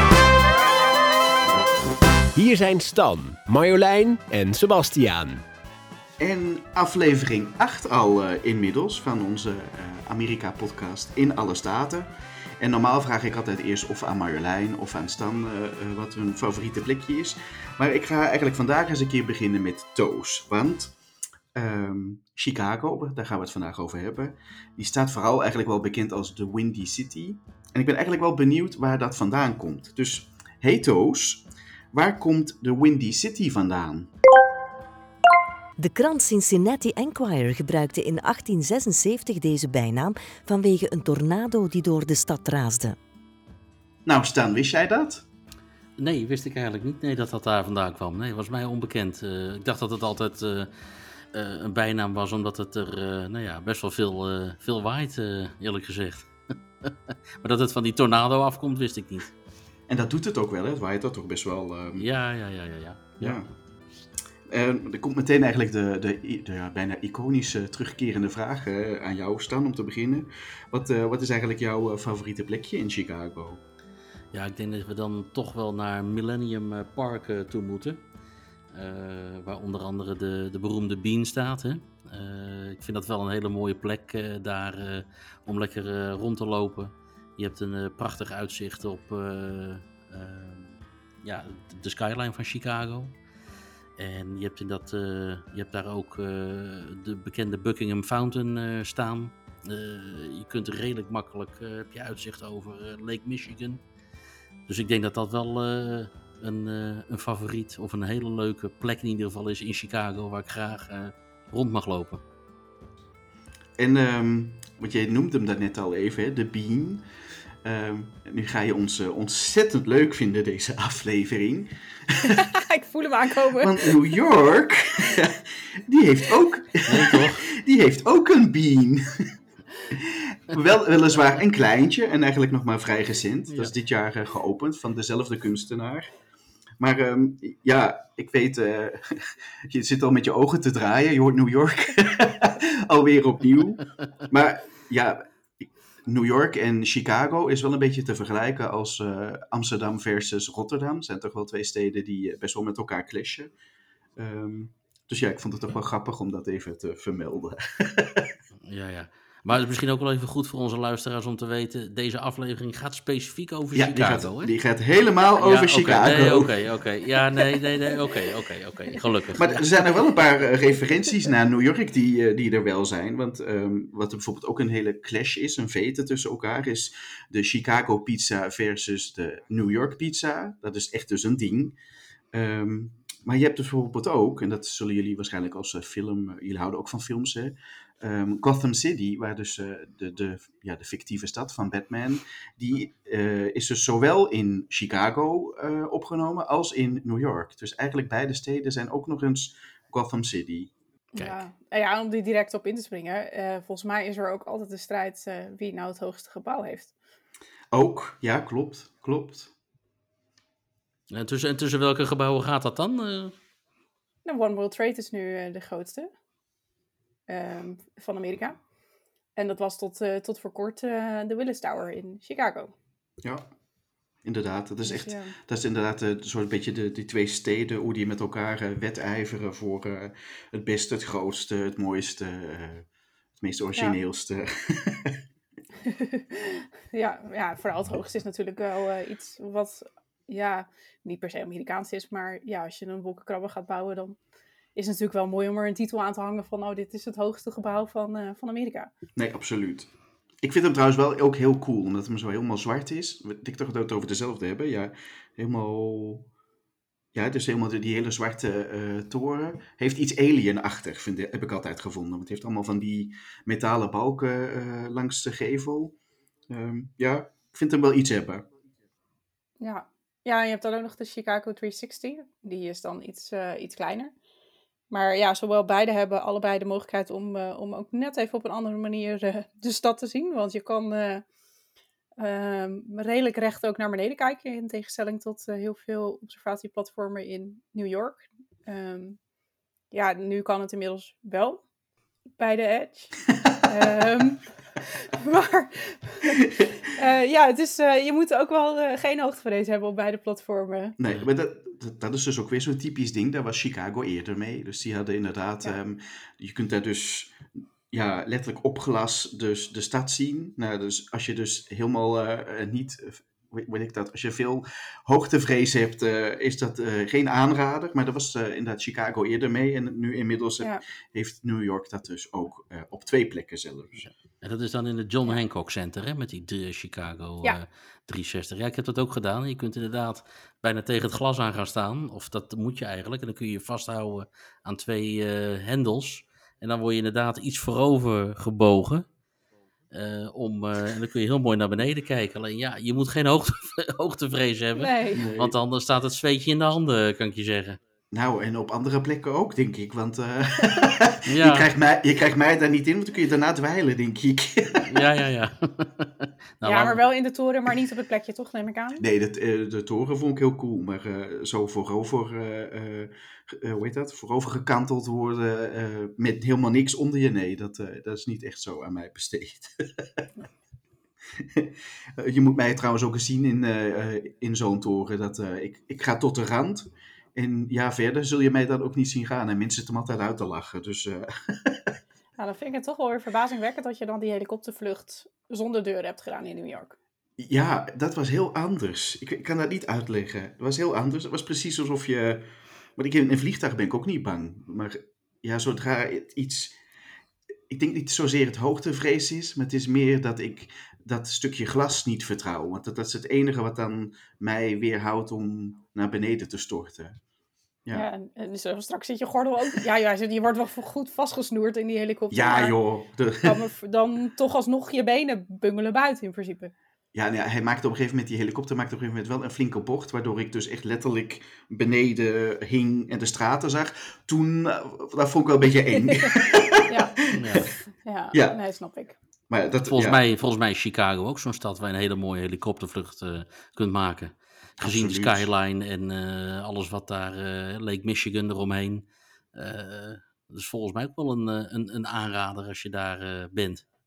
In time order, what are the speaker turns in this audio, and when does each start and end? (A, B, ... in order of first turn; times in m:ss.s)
0:02.3-0:05.4 A
0:06.2-0:12.1 B
0:12.6-0:20.9 B
0:21.5-0:34.1 B
0:35.8-0:43.0 C
0:44.0-0:45.2 B
0:46.0-0:50.7 D
0:51.3-0:56.3 D
0:56.8-0:59.3 D
0:59.9-1:02.0 B
1:02.0-1:03.4 D
1:03.2-1:03.5 B
1:04.5-1:13.6 B
1:14.3-1:18.0 D
1:18.7-1:33.1 D
1:34.0-1:43.8 D
1:44.7-1:52.2 D
1:53.8-1:57.0 B
1:57.6-2:02.5 B
2:02.2-2:04.0 E
2:03.6-2:09.3 B
2:06.8-2:07.5 D
2:09.9-2:16.1 B
2:16.8-2:33.5 B
2:34.2-2:38.3 B
2:38.7-2:44.5 D
2:43.7-2:46.5 B
2:45.4-2:49.6 D
2:47.1-2:47.5 B
2:49.3-3:01.8 B
3:02.3-3:20.7 B
3:21.1-3:26.9 E
3:21.1-3:21.4 D
3:27.7-3:29.5 B
3:31.1-3:33.3 D
3:34.2-3:36.1 E
3:37.3-3:38.6 E
3:39.4-3:42.7 E
3:43.2-3:43.5 B
3:44.2-3:52.8 B
3:44.8-3:45.3 E
3:53.4-3:55.2 B
3:55.8-4:04.2 E
4:04.7-4:08.9 E
4:09.2-4:09.9 B
4:10.4-4:16.3 B
4:17.1-4:25.9 B
4:26.5-4:28.4 B
4:29.6-4:34.1 E
4:34.9-4:41.2 E
4:42.2-4:49.2 E
4:49.9-4:51.6 E
4:52.4-4:54.4 E
4:54.9-5:01.0 E
5:01.0-5:24.1 B
5:24.4-5:39.0 D
5:39.9-5:47.8 D
5:44.8-5:45.2 E
5:45.2-5:45.5 B
5:48.1-5:55.0 B
5:51.2-5:51.7 D
5:54.9-5:57.0 D
5:56.6-5:59.0 E
5:59.0-6:10.2 B
6:11.3-6:21.9 B
6:22.4-6:27.0 E
6:27.4-6:36.8 B
6:37.7-6:47.2 B
6:47.9-6:52.8 E
6:52.3-6:53.6 B
6:53.4-6:56.7 E
6:57.1-7:07.6 B
7:06.9-7:07.1 E
7:07.3-7:07.7 D
7:08.0-7:09.2 E
7:08.3-7:08.6 B
7:09.5-7:10.2 B
7:09.9-7:23.8 D
7:14.8-7:15.5 B